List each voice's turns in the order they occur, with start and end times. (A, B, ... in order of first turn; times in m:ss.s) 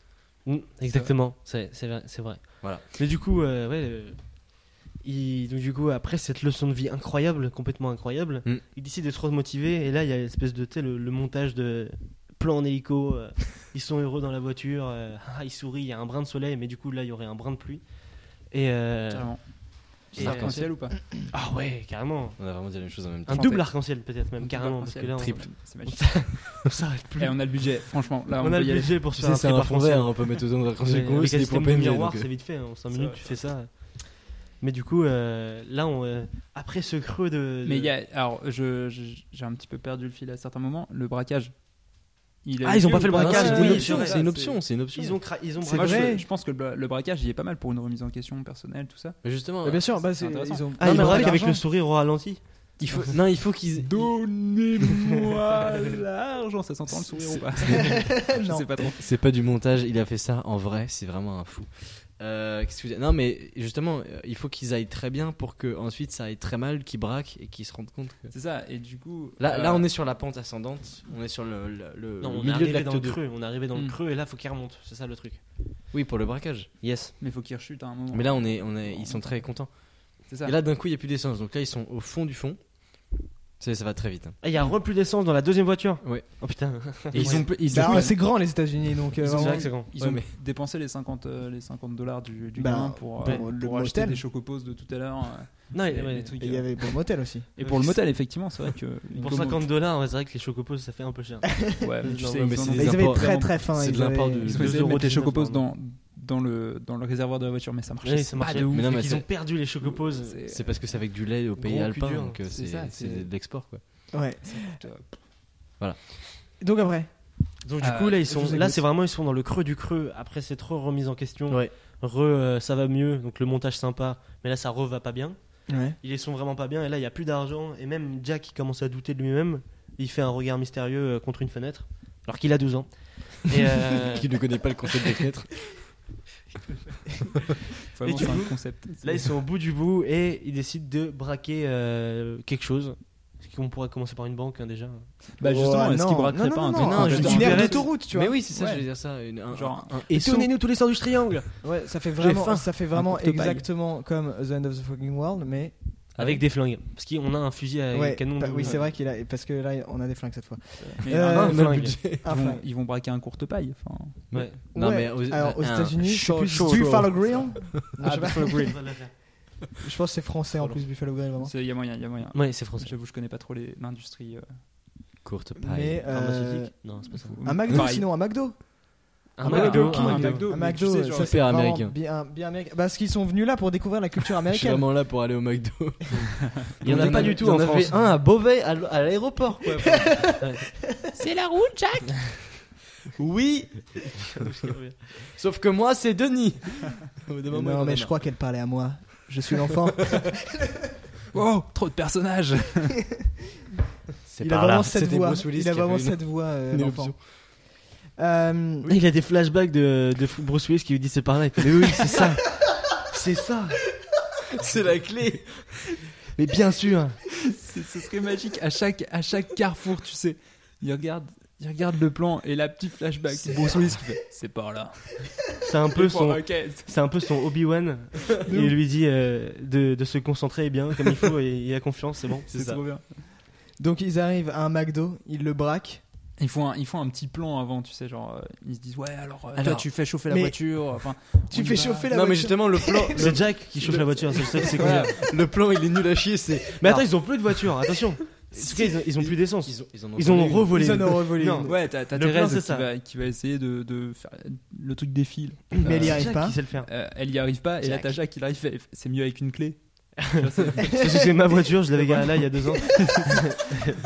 0:00.4-0:19.6 A
0:19.1-0:21.0 B
0:20.2-0:20.7 C
0:20.2-0:20.7 A
0:21.3-0:22.4 A
0:22.4-0:23.5 C
0:23.3-0:27.4 A
0:23.3-0:26.5 B
0:25.2-0:25.4 C
0:27.2-0:29.0 B
0:28.3-0:37.9 A
0:29.1-0:32.3 C
0:32.9-0:33.3 B
0:37.6-0:41.6 B
0:42.4-0:44.6 B
0:42.6-0:44.3 A
0:43.1-0:46.0 C
0:44.9-0:46.2 A
0:45.6-0:46.3 D
0:45.7-0:49.2 B
0:49.2-0:50.1 C
0:49.6-0:51.6 D
0:50.2-0:51.3 B
0:50.8-0:53.0 A
0:50.8-0:51.4 C
0:52.8-0:59.0 B
0:52.8-0:54.2 C
0:57.0-0:58.0 A
0:57.9-0:58.7 D
0:58.9-1:08.3 C
1:08.3-1:09.9 B
1:09.4-1:13.2 C
1:12.2-1:15.4 A
1:15.9-1:16.7 C
1:16.8-1:17.1 A
1:17.2-1:20.5 B
1:18.1-1:24.4 C
1:24.4-1:28.0 A
1:26.0-1:26.3 C
1:27.1-1:28.1 C
1:27.1-1:28.6 B
1:27.6-1:29.7 D
1:29.2-1:39.7 B
1:29.3-1:29.9 A
1:30.0-1:30.3 C
1:32.6-1:34.2 D
1:35.7-1:36.4 A
1:36.4-1:37.5 D
1:37.6-1:38.0 A
1:39.2-1:42.6 A
1:41.8-1:43.6 B
1:42.2-1:44.8 C
1:42.7-1:44.5 D
1:44.4-1:48.9 B
1:44.5-1:45.6 A
1:48.0-1:50.4 A
1:48.6-1:49.3 C
1:49.8-1:50.8 B
1:50.5-1:54.1 C
1:51.6-1:52.4 A
1:52.5-1:53.3 B
1:54.1-1:54.8 D
1:54.4-1:55.2 B
1:56.6-1:57.1 D
1:57.6-2:14.6 A
1:57.8-1:58.2 B
1:58.3-1:58.8 D
2:01.5-2:01.7 C
2:05.7-2:06.0 D
2:14.0-2:15.8 C
2:17.9-2:19.3 B
2:18.0-2:25.1 A
2:25.4-2:30.0 B
2:25.4-2:28.3 D
2:26.7-2:30.4 C
2:27.3-2:27.8 A
2:30.1-2:31.6 A
2:31.6-2:35.8 D
2:32.2-2:32.7 C
2:32.9-2:33.6 B
2:36.1-2:38.9 A
2:36.2-2:36.4 B
2:37.9-2:42.6 D
2:40.8-2:44.3 B
2:41.2-2:42.0 A
2:41.2-2:42.2 C
2:44.3-2:48.2 C
2:44.7-2:51.5 D
2:46.6-2:46.8 A
2:46.6-2:48.8 B
2:48.6-2:49.1 A
2:51.4-2:54.6 B
2:52.3-2:52.9 A
2:55.2-2:56.0 C
2:55.6-2:56.7 D
2:56.1-2:57.4 A
2:57.1-2:58.1 B
2:57.4-3:04.9 D
2:59.4-3:00.5 A
2:59.4-3:01.4 B
3:01.1-3:02.0 C
3:04.5-3:10.3 C
3:06.8-3:08.0 A
3:06.9-3:07.2 B
3:07.0-3:07.4 D
3:09.9-3:10.4 D
3:11.1-3:12.1 B
3:13.2-3:14.2 C
3:14.3-3:15.0 A
3:15.3-3:18.2 C
3:17.5-3:20.6 D
3:21.3-3:23.0 B
3:24.2-3:27.2 C
3:24.4-3:28.9 D
3:28.8-3:33.9 A
3:34.5-3:35.7 C
3:36.3-3:37.2 A
3:37.5-3:46.9 B
3:45.6-3:52.8 A
3:48.4-3:48.8 D
3:52.5-3:53.0 B
3:53.8-3:56.0 D
3:56.4-4:02.1 B
3:59.6-3:59.9 C
4:00.3-4:03.2 D
4:02.1-4:07.2 C
4:03.2-4:05.2 A
4:04.3-4:04.7 D
4:04.8-4:05.1 B
4:06.8-4:12.9 A
4:08.6-4:11.0 C
4:10.7-4:11.8 D
4:11.6-4:21.0 B
4:15.8-4:16.6 D
4:15.9-4:16.9 A
4:17.8-4:18.1 C
4:20.2-4:23.8 A
4:22.0-4:22.9 B